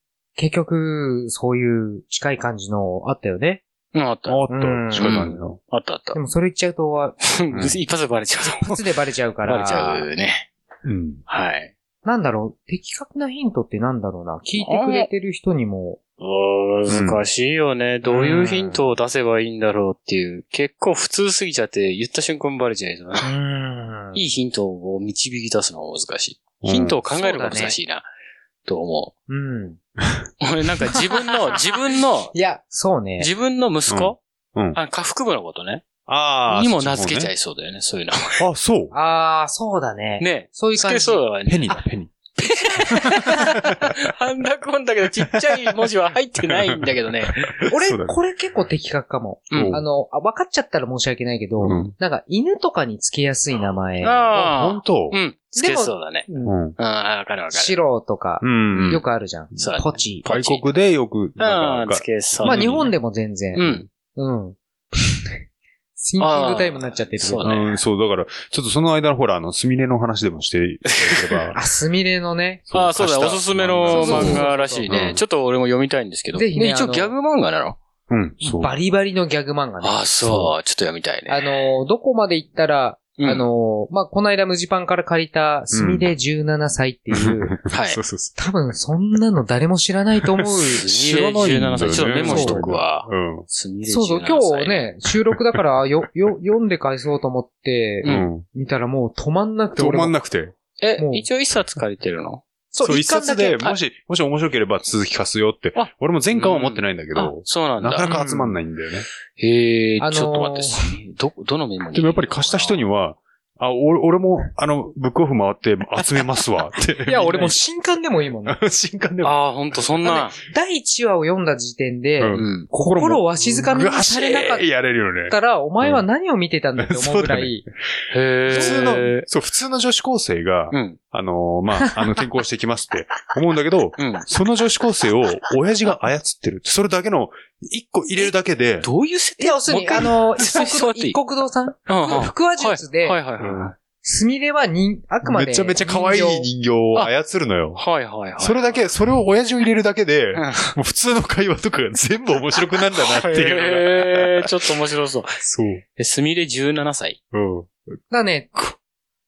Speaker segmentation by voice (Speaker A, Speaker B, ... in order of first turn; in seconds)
Speaker A: 0.4-3.6, 4.5-5.2, 6.1-7.2, 8.5-10.1, 12.0-16.0, 18.1-18.8, 23.2-24.2, 27.1-27.7, 29.3-29.8, 32.3-33.3, 38.9-41.2, 47.7-54.3, 55.5-56.5, 57.5-60.2, 62.4-63.6, 64.1-65.3, 66.0-67.6, 71.5-72.6, 73.9-74.9, 76.3-77.1, 78.4-80.5, 81.3-87.6, 88.4-90.8, 92.2-92.7, 93.9-100.1, 101.0-101.2, 102.7-103.6, 108.1-108.5, 110.0-110.9, 117.0-118.6, 120.0-124.7, 125.3-127.6, 128.5-128.8, 139.4-143.2, 144.0-146.5, 158.1-158.7
Speaker B: 3.9-4.4, 5.0-6.2, 7.2-8.8, 9.4-10.5, 11.3-11.7, 14.6-15.1, 16.2-23.3, 24.1-28.0, 28.6-29.1, 30.4-32.3, 33.2-34.2, 34.7-35.8, 36.5-38.4, 40.2-41.7, 42.4-47.6, 49.5-49.8, 54.0-56.3, 56.8-57.8, 58.7-59.0, 59.6-60.6, 61.4-62.9, 63.5-63.9, 66.2-67.8, 70.9-71.4, 72.7-77.8, 79.8-81.7, 83.2-83.4, 87.7-88.0, 90.8-94.8, 100.8-102.4, 105.7-108.2, 109.4-112.8, 119.2-120.4, 122.3-122.7, 128.1-129.2, 130.7-131.0, 134.0-134.2, 138.8-141.2, 141.9-143.7, 147.8-148.9, 150.3-150.8, 153.0-155.4, 156.0-157.2
Speaker C: 4.3-5.6, 7.5-7.8, 10.8-11.2, 16.9-17.2, 26.6-27.0, 30.0-30.3, 33.9-34.8, 36.1-37.3, 38.4-38.9, 41.5-42.1, 43.2-43.9, 45.3-45.7, 46.5-46.9, 47.4-48.2, 49.5-49.8, 51.6-51.9, 54.3-55.2, 56.4-56.8, 58.4-59.0, 59.5-62.9, 67.4-71.6, 72.7-75.2, 78.1-78.8, 85.7-86.1, 87.1-88.4, 90.2-93.5, 98.0-98.5, 99.8-100.5, 102.8-109.0, 111.9-117.6, 118.5-119.3, 122.2-126.0, 126.8-138.9, 143.4-143.7, 145.2-147.8, 148.4-154.5, 155.4-155.8, 157.3-157.8